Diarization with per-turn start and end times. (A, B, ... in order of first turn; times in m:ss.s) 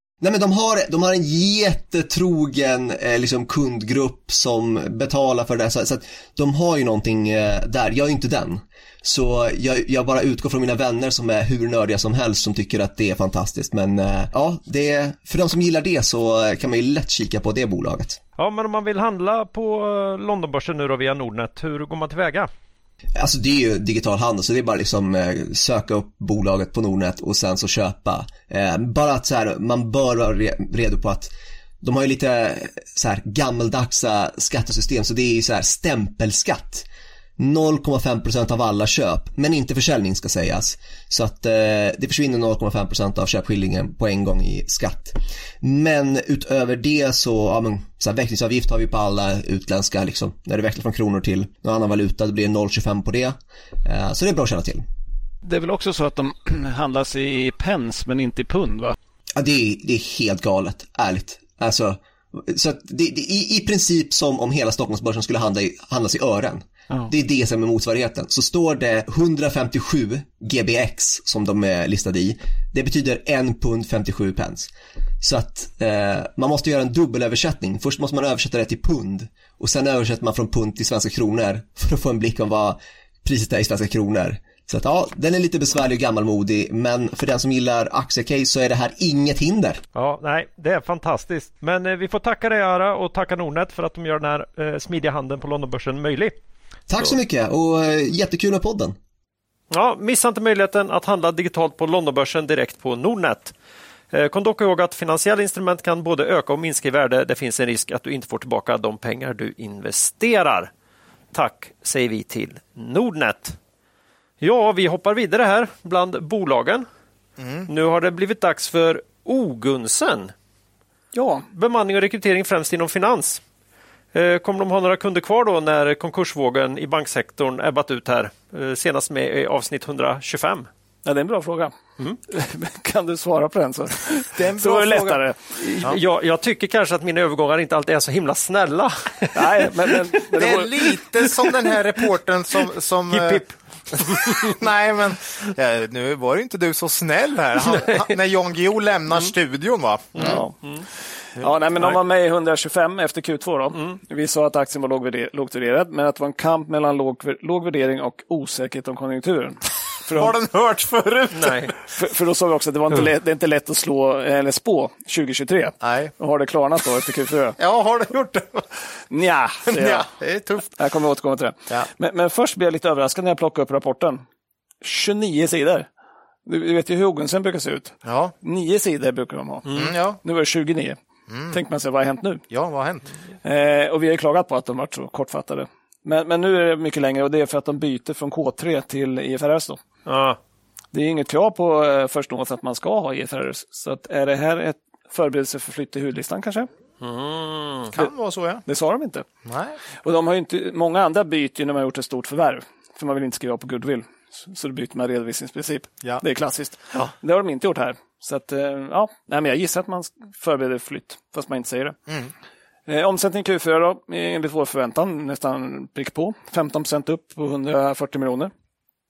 0:00.2-0:18.2 A
0:18.4-0:22.5 B
0:23.2-0:31.3 A
0:31.8-0:36.9 A
0:37.4-0:54.8 A
0:55.4-0:59.0 C
0:59.4-1:29.8 A
1:29.9-1:36.3 B
1:36.9-1:39.0 A
1:39.7-1:43.5 B
1:44.1-1:50.7 B
1:51.3-1:53.6 B
1:54.4-1:56.8 B
1:57.4-1:57.7 D
1:57.7-2:00.3 B
2:01.1-2:01.5 C
2:01.5-2:03.4 B
2:04.1-2:10.7 B
2:11.0-2:11.7 C
2:12.3-2:15.6 C
2:14.4-2:15.2 D
2:15.6-2:20.0 B
2:19.3-2:21.0 C
2:20.3-2:30.4 D
2:23.1-2:24.5 B
2:27.7-2:28.1 B
2:30.2-2:30.8 B
2:30.2-2:30.5 C
2:31.4-2:40.4 C
2:33.7-2:34.0 B
2:40.1-2:41.7 D
2:41.3-2:41.7 B
2:41.9-2:47.6 C
2:45.8-2:46.1 D
2:47.6-2:48.7 D
2:49.1-2:50.1 C
2:49.7-2:50.7 D
2:50.7-2:54.2 C
2:54.8-2:55.9 C
2:56.4-2:59.7 C
2:58.0-2:58.3 D
2:59.6-2:59.9 B
2:59.7-3:00.2 D
3:00.2-3:01.0 C
3:01.3-3:01.6 D
3:01.5-3:02.4 C
3:02.5-3:03.1 D
3:03.4-3:09.8 C
3:10.0-3:10.4 B
3:10.9-3:16.7 C
3:17.0-3:17.9 B
3:17.9-3:18.6 D
3:18.6-3:19.2 C
3:19.4-3:19.8 D
3:20.0-3:32.0 C
3:32.9-3:38.5 C